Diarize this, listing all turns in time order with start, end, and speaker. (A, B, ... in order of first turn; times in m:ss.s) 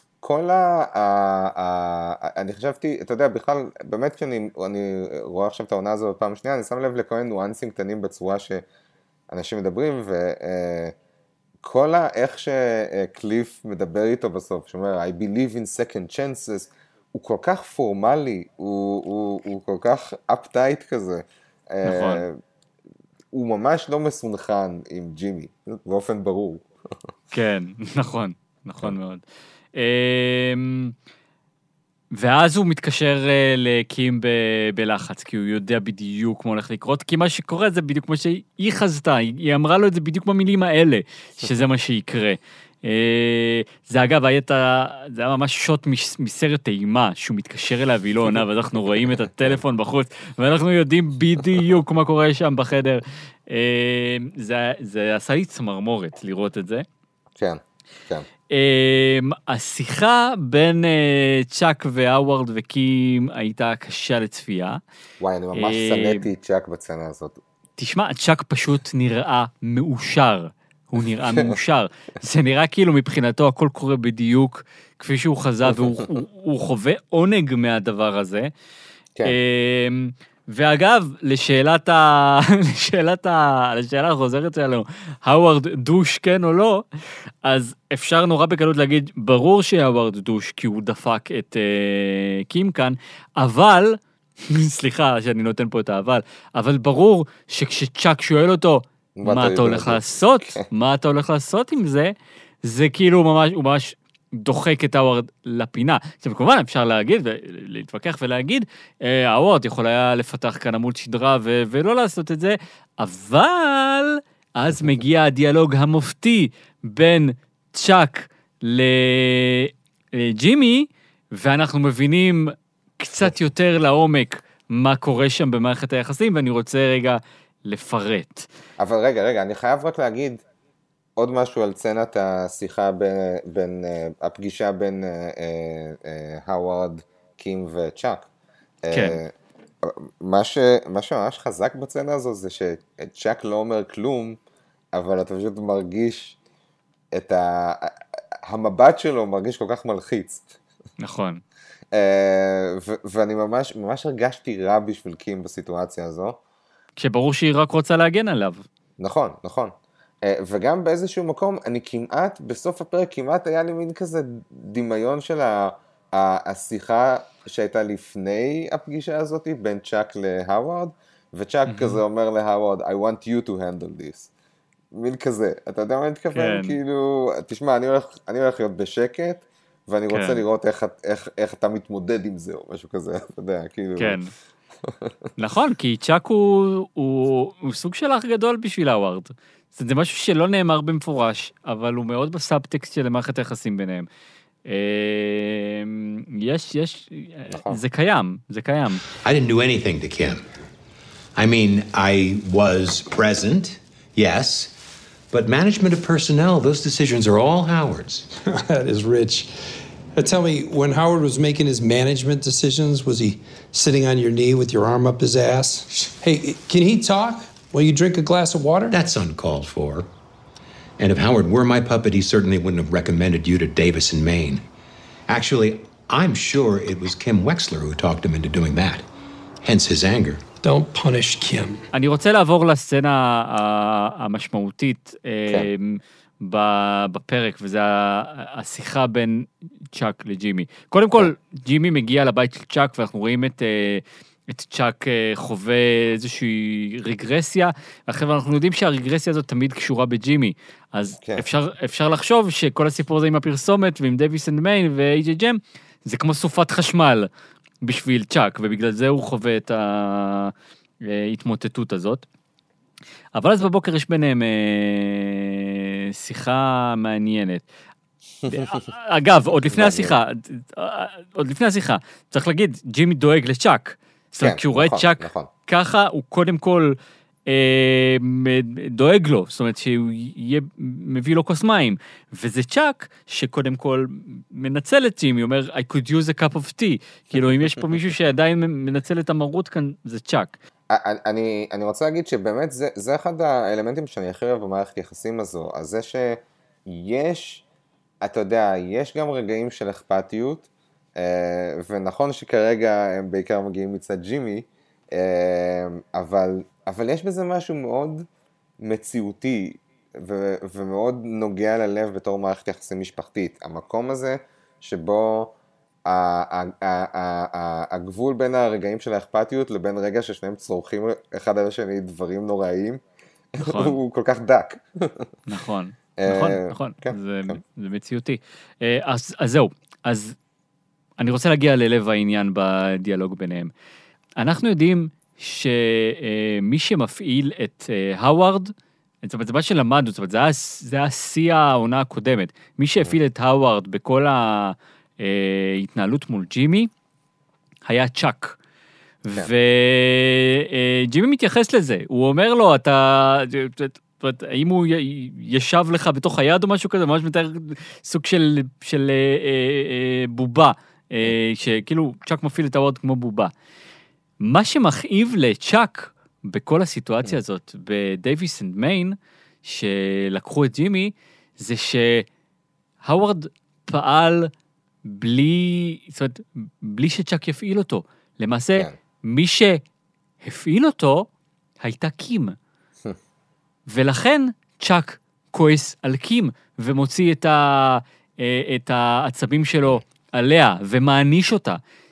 0:00.2-0:08.6 A
0:09.3-0:10.9 A
0:11.6-0:22.4 A
0:21.8-0:22.2 B
0:23.3-0:26.6 A
0:27.3-0:29.2 B
0:29.7-0:30.9 B
0:32.1-0:56.8 B
0:57.4-0:58.3 A
0:58.5-1:04.8 B
1:05.2-1:07.4 A
1:05.5-1:06.2 B
1:07.8-1:18.5 B
1:19.2-1:26.8 B
1:27.4-2:08.5 B
1:39.2-1:40.7 A
2:08.8-2:10.4 A
2:11.2-2:18.3 A
2:18.8-2:24.4 A
2:18.9-2:19.2 B
2:24.9-2:26.4 A
2:27.1-2:30.6 A
2:31.0-2:31.4 B
2:31.9-2:36.4 A
2:37.0-2:38.6 B
2:39.0-2:54.3 A
2:51.6-2:52.0 B
2:54.9-3:04.2 A
2:56.3-2:56.8 B
3:00.1-3:00.4 B
3:04.0-3:04.3 B
3:04.8-3:05.1 A
3:05.4-3:14.1 B
3:14.6-3:19.0 B
3:17.5-3:17.8 A
3:19.2-3:20.4 C
3:21.4-3:24.7 C
3:25.3-3:28.3 C
3:28.4-3:38.9 D
3:38.9-3:40.1 C
3:41.0-3:44.6 C
3:45.3-3:49.0 C
3:49.6-3:50.4 C
3:50.6-3:51.8 D
3:51.9-4:17.3 B
4:11.2-4:11.4 A
4:17.8-4:22.2 B
4:23.3-4:27.6 B
4:28.4-4:50.6 B
4:29.6-4:30.2 A
4:34.4-4:35.5 A
4:50.9-4:57.6 A
4:58.2-5:08.2 A
5:08.8-5:15.5 A
5:16.0-5:23.0 A
5:23.5-5:25.3 A
5:23.6-5:24.0 B
5:25.5-5:30.3 B
5:26.2-5:27.6 A
5:31.2-5:33.7 B
5:34.4-5:46.9 B
5:47.8-5:48.6 B
5:49.2-6:03.5 B
6:04.4-6:12.3 B
6:13.0-6:14.5 B
6:15.0-6:19.8 B
6:20.4-6:21.3 B
6:21.8-6:22.5 B
6:23.9-6:31.8 B